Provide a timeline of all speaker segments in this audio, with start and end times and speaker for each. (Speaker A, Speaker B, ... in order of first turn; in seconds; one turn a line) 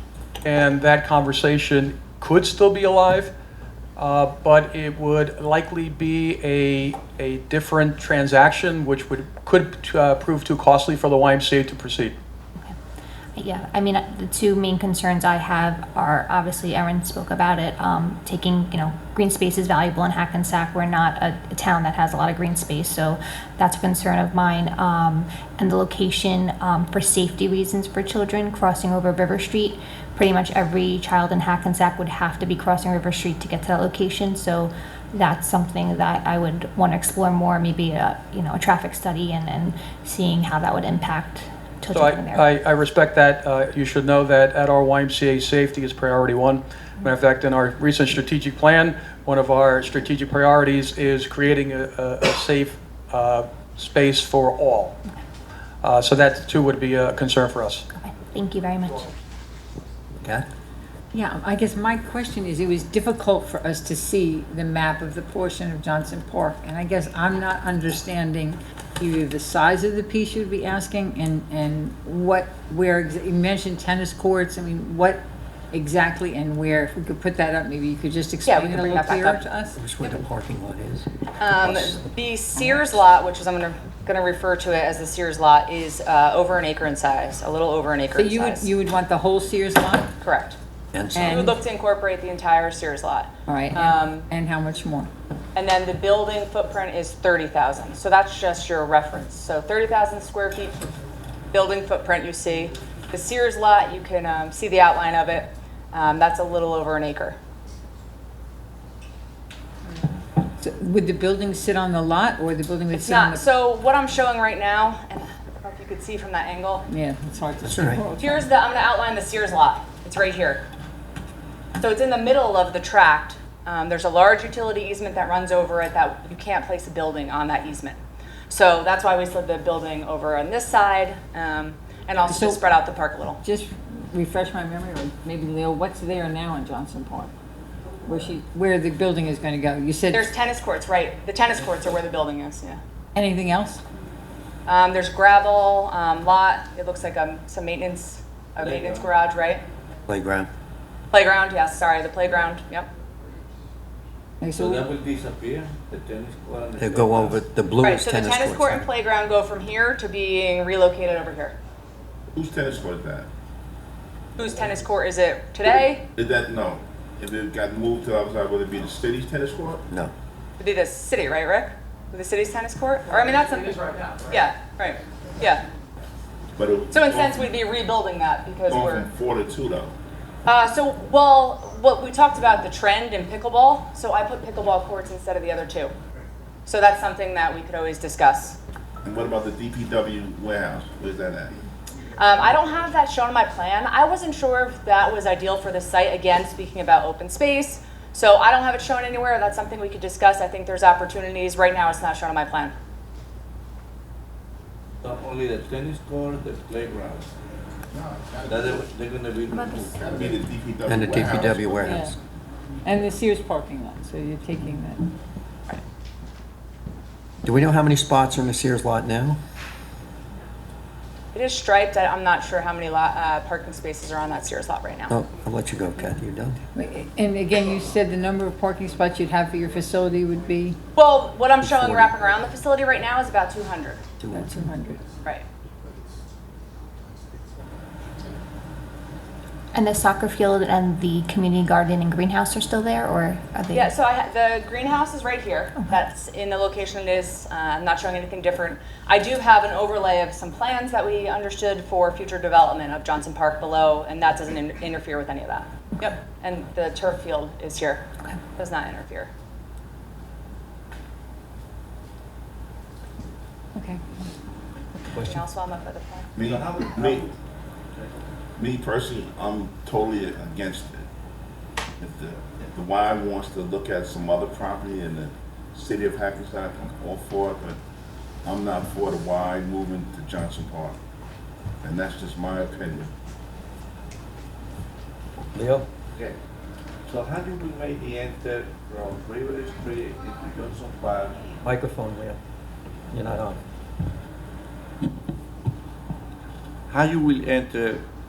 Speaker A: 0.4-3.3
Speaker A: 4.0-12.1
Speaker B: 13.4-42.5
Speaker A: 41.9-54.9
Speaker A: 55.8-57.8
Speaker B: 57.9-59.1
Speaker C: 60.2-60.5
Speaker D: 61.1-79.8
Speaker E: 78.5-79.4
Speaker C: 79.8-82.0
Speaker E: 81.4-88.7
Speaker D: 88.2-90.1
Speaker E: 90.2-90.6
Speaker C: 90.9-91.5
Speaker D: 91.2-91.5
Speaker E: 91.2-94.3
Speaker D: 93.5-95.1
Speaker E: 95.5-100.8
Speaker E: 101.5-107.4
Speaker D: 110.6-113.4
Speaker E: 112.9-116.9
Speaker D: 116.9-118.4
Speaker C: 117.7-118.0
Speaker E: 118.2-120.6
Speaker E: 121.8-128.0
Speaker E: 128.5-133.4
Speaker D: 132.3-132.6
Speaker D: 133.4-137.3
Speaker D: 138.0-140.3
Speaker E: 140.1-142.8
Speaker D: 143.1-143.8
Speaker E: 144.7-149.6
Speaker F: 148.6-149.1
Speaker C: 150.1-150.5
Speaker E: 151.1-152.9
Speaker D: 154.4-154.8
Speaker F: 154.6-157.4
Speaker C: 156.8-158.9
Speaker E: 157.8-161.6
Speaker G: 162.3-163.3
Speaker E: 164.4-166.0
Speaker G: 166.1-169.8
Speaker E: 170.6-175.6
Speaker G: 176.5-177.5
Speaker E: 176.9-179.1
Speaker G: 178.7-179.9
Speaker E: 180.4-185.9
Speaker E: 186.7-188.6
Speaker G: 189.0-191.5
Speaker E: 192.2-202.8
Speaker F: 205.0-207.3
Speaker F: 208.4-210.1
Speaker G: 210.0-212.1
Speaker C: 210.8-212.1
Speaker D: 211.8-212.1
Speaker D: 212.8-215.1
Speaker C: 217.4-219.4
Speaker E: 221.3-225.2
Speaker C: 225.1-226.6
Speaker D: 226.8-230.8
Speaker E: 230.9-234.0
Speaker C: 231.6-232.1
Speaker C: 234.2-234.5
Speaker D: 234.3-235.0
Speaker B: 239.7-243.9
Speaker E: 243.7-258.0
Speaker E: 258.6-259.3
Speaker D: 263.8-264.2
Speaker C: 265.1-265.4
Speaker E: 265.2-266.3
Speaker G: 266.4-267.2
Speaker F: 266.4-267.4
Speaker G: 268.6-271.1
Speaker G: 272.0-277.8
Speaker G: 278.4-281.0
Speaker G: 281.8-283.1
Speaker C: 285.6-285.9
Speaker F: 287.1-291.6
Speaker C: 291.6-292.4
Speaker C: 293.1-293.6
Speaker F: 296.9-298.0